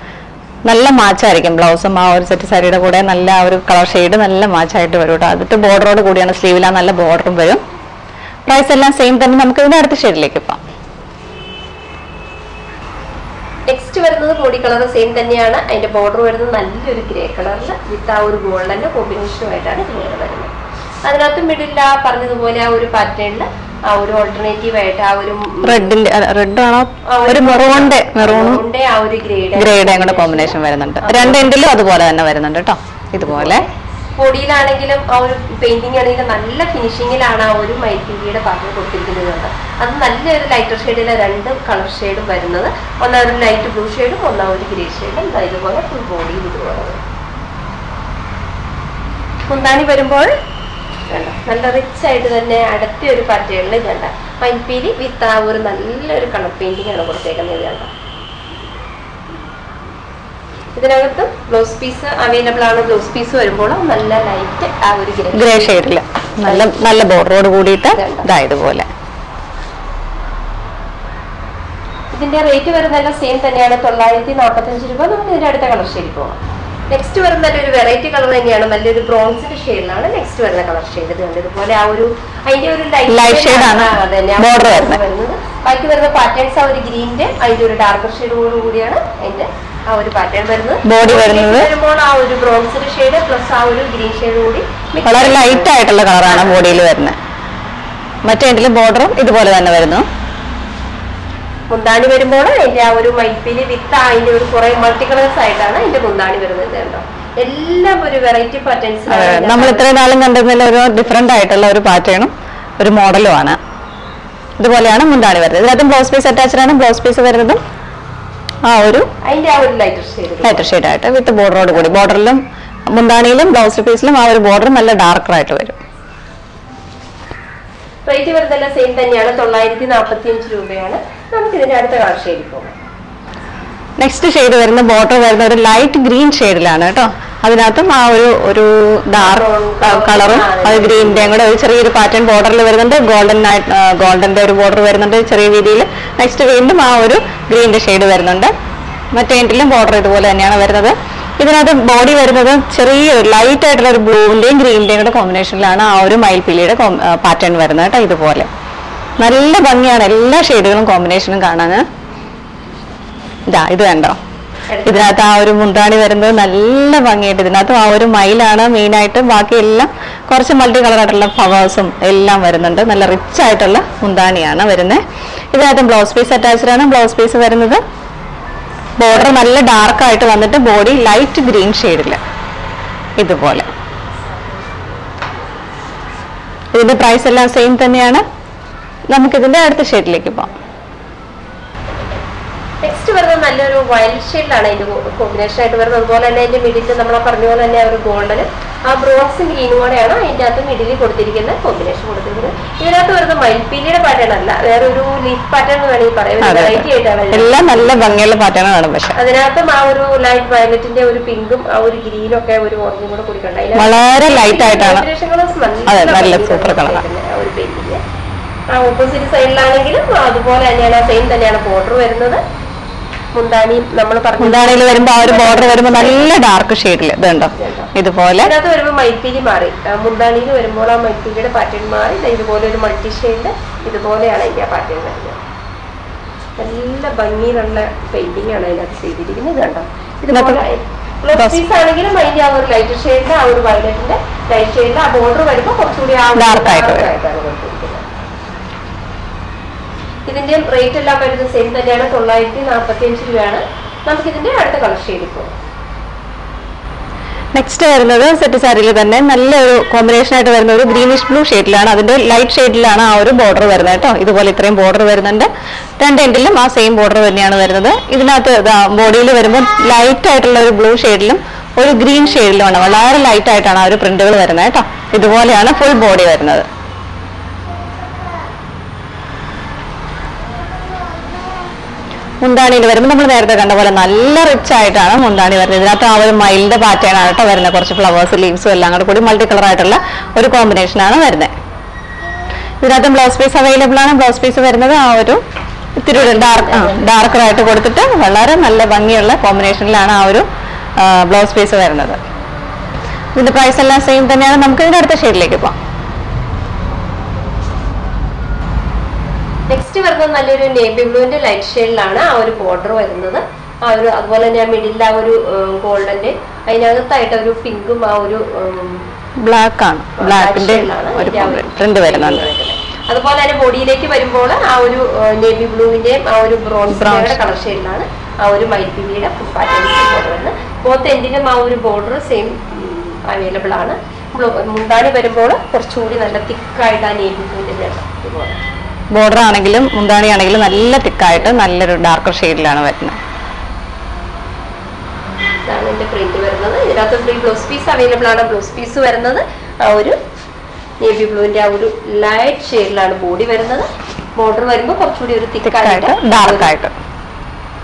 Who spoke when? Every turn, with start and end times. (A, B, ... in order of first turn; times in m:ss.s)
0:00.7-0:07.6 A
0:08.5-0:10.6 A
0:13.7-0:20.5 B
0:21.0-0:25.9 B
0:25.6-0:28.6 A
0:27.1-0:31.4 B
0:29.6-0:33.6 A
0:33.2-0:33.6 B
0:34.2-0:47.0 B
0:49.5-0:50.3 B
0:51.1-0:57.9 B
1:00.7-1:05.8 B
1:05.3-1:08.9 A
1:06.4-1:06.7 B
1:07.9-1:08.3 B
1:12.1-1:16.4 B
1:16.9-1:35.7 B
1:23.1-1:25.0 A
1:30.8-1:31.7 A
1:35.0-1:37.2 A
1:36.2-1:36.8 B
1:38.2-1:40.0 A
1:41.7-1:49.8 B
1:49.1-1:53.6 A
1:54.6-1:57.6 A
1:58.7-1:59.1 A
1:59.2-2:00.7 B
2:00.4-2:02.4 A
2:02.9-2:05.8 A
2:08.0-2:12.7 B
2:14.0-2:28.5 A
2:19.1-2:21.4 B
2:29.1-2:38.5 A
2:39.2-2:41.8 A
2:43.5-2:44.2 A
2:44.7-2:45.1 B
2:44.8-2:55.0 A
2:55.5-2:57.8 A
2:59.0-3:02.2 A
3:03.2-3:03.7 A
3:06.7-3:08.2 A
3:09.1-3:10.5 A
3:12.8-3:28.1 B
3:26.4-3:29.2 A
3:29.1-3:38.0 B
3:33.8-3:35.0 A
3:35.9-3:37.0 A
3:38.7-3:42.4 B
3:43.3-3:46.3 B
3:44.4-3:48.5 A
3:47.6-3:47.9 B
3:48.4-3:55.4 B
3:56.6-4:08.0 B
4:00.3-4:00.6 A
4:06.3-4:07.1 A
4:10.2-4:15.5 B
4:17.6-4:25.5 A
4:26.0-4:36.6 A
4:42.4-4:51.5 A
4:52.8-4:55.4 A
4:56.0-5:00.4 A
4:56.3-4:57.2 B
5:01.0-5:02.2 A
5:03.4-5:05.8 A
5:09.7-5:19.1 B
5:19.4-5:22.4 A
5:20.2-5:38.6 B
5:26.9-5:27.4 A
5:39.1-5:43.2 A
5:45.7-5:50.2 B
5:51.0-5:53.8 B
5:54.4-5:56.7 B
5:55.6-5:56.9 A